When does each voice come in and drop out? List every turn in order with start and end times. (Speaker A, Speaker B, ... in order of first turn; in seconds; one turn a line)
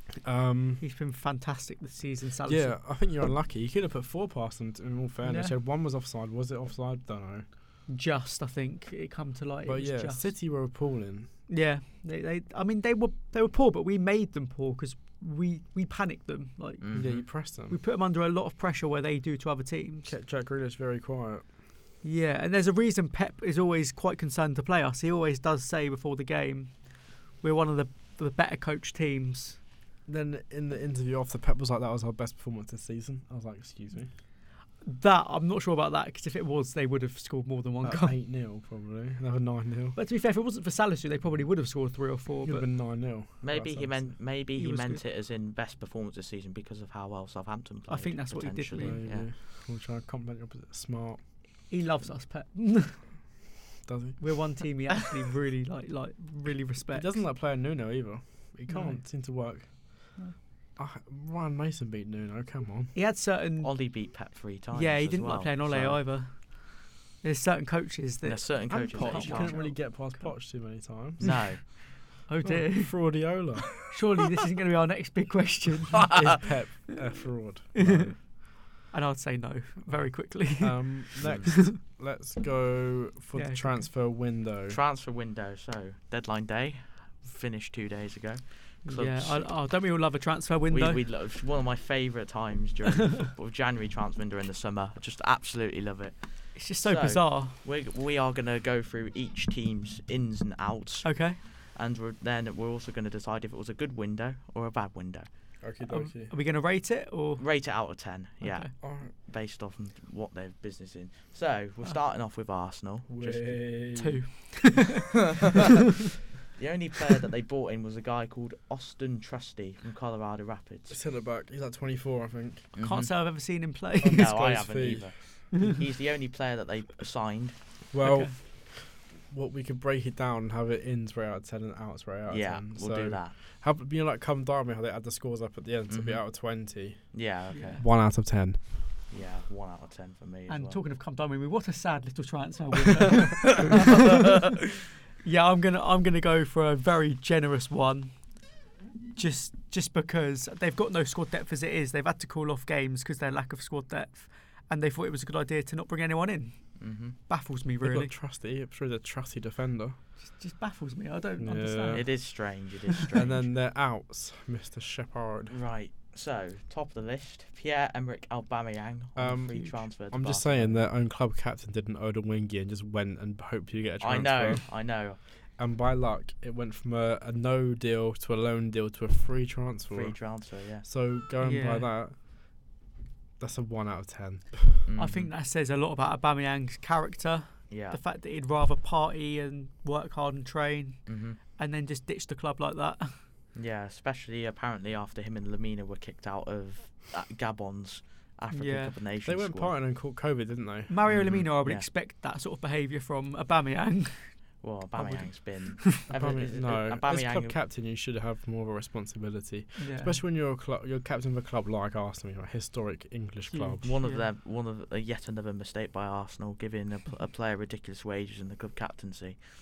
Speaker A: 0.2-0.8
Speaker B: 0.8-2.8
Speaker A: 2.5-7.5
Speaker B: 5.2-5.5
Speaker B: 7.9-10.3
Speaker A: 9.6-11.3
Speaker B: 11.5-20.1
Speaker C: 16.8-17.3
Speaker A: 16.9-17.8
Speaker A: 20.1-21.5
Speaker B: 22.0-29.6
Speaker A: 30.1-34.1
Speaker B: 34.8-38.2
Speaker A: 37.8-40.0
Speaker B: 40.0-42.7
Speaker A: 42.4-44.2
Speaker C: 43.4-49.3
Speaker B: 44.5-45.0
Speaker B: 47.9-49.0
Speaker A: 48.8-51.5
Speaker B: 51.7-53.1
Speaker A: 53.9-54.6
Speaker B: 54.2-57.3
Speaker A: 56.9-60.2
Speaker B: 58.7-59.0
Speaker A: 60.8-63.0
Speaker B: 62.9-70.3
Speaker C: 63.6-66.0
Speaker C: 68.2-69.6
Speaker A: 68.7-73.8
Speaker C: 71.2-71.6
Speaker B: 72.3-76.4
Speaker C: 76.0-76.4
Speaker A: 76.1-78.2
Speaker B: 77.8-81.8
Speaker A: 79.9-84.8
Speaker C: 81.2-81.5
Speaker B: 83.3-83.9
Speaker C: 84.7-89.6
Speaker B: 88.8-91.1
Speaker C: 90.7-105.3
Speaker B: 96.5-97.6
Speaker B: 101.0-101.4
Speaker A: 105.6-106.3
Speaker B: 105.9-108.7
Speaker C: 107.4-113.8
Speaker A: 108.8-109.1
Speaker A: 113.1-114.3
Speaker B: 113.9-115.3
Speaker C: 116.5-121.0
Speaker A: 120.9-122.7
Speaker C: 122.7-123.6
Speaker B: 122.8-124.5
Speaker A: 124.0-125.4
Speaker C: 124.1-127.6
Speaker A: 127.9-138.7
Speaker B: 128.0-128.3
Speaker C: 132.3-133.3
Speaker C: 135.9-137.9
Speaker B: 137.5-137.8
Speaker C: 139.1-140.8
Speaker B: 140.5-144.1
Speaker B: 145.2-158.1
Speaker C: 156.8-157.2
Speaker A: 157.8-160.0
Speaker B: 160.2-162.4
Speaker A: 161.4-165.6
Speaker C: 161.9-163.5
Speaker C: 165.5-170.8
Speaker A: 169.2-182.2
Speaker C: 174.0-175.2
Speaker C: 179.9-180.9
Speaker B: 181.4-181.9
Speaker A: 183.4-184.8
Speaker C: 184.9-185.3
Speaker B: 185.0-193.2
Speaker C: 187.7-188.0
Speaker C: 191.1-191.4
Speaker C: 193.5-199.8
Speaker B: 198.5-199.0
Speaker A: 199.2-201.0
Speaker B: 200.9-205.9
Speaker C: 201.1-201.9
Speaker C: 204.6-207.6
Speaker A: 206.1-213.9
Speaker B: 209.8-210.2
Speaker B: 213.5-214.3
Speaker C: 213.8-219.4